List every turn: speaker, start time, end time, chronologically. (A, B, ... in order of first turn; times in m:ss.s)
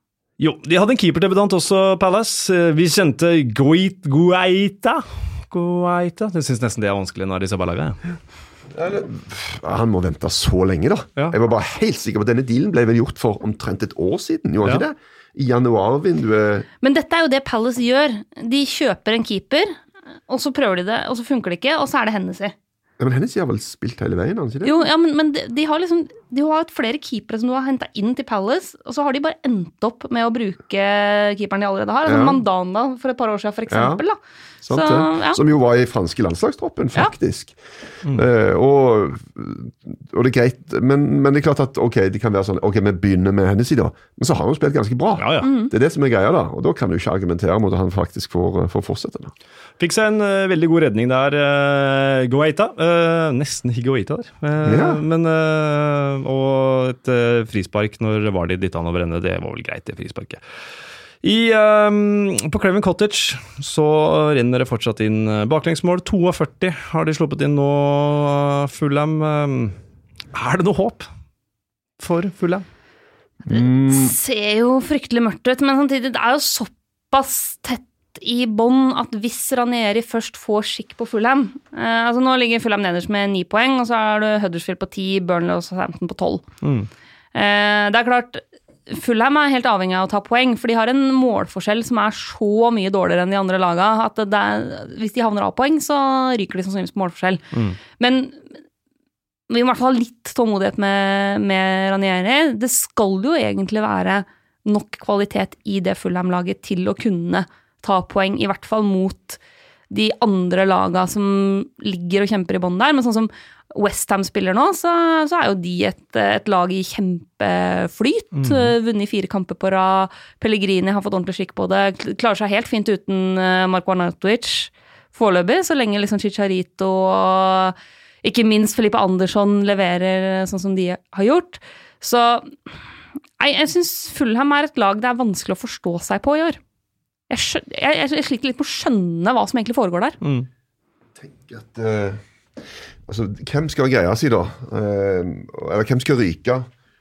0:00.4-0:08.0 A
0:08.7-0:16.7 B
0:16.8-0:19.8 C
0:20.3-0:22.6 C
0:23.0-0:24.8 B
0:24.6-0:34.2 C
0:32.0-0:32.4 B
0:33.7-0:34.0 B
0:34.6-0:49.3 B
0:34.7-0:35.4 C
0:45.2-0:45.5 A
0:45.4-0:45.7 C
0:49.8-1:00.4 A
0:54.6-0:55.0 B
1:01.2-1:09.8 A
1:10.3-1:11.1 A
1:12.0-1:12.6 A
1:13.5-1:14.1 B
1:13.5-1:26.4 C
1:26.6-1:26.9 A
1:27.3-1:37.4 C
1:37.5-1:37.8 A
1:38.0-1:38.4 C
1:39.5-2:12.6 C
1:58.3-1:58.7 A
2:13.4-2:16.6 C
2:17.3-2:20.2 C
2:20.2-2:20.5 A
2:21.2-2:22.2 B
2:23.0-2:26.7 B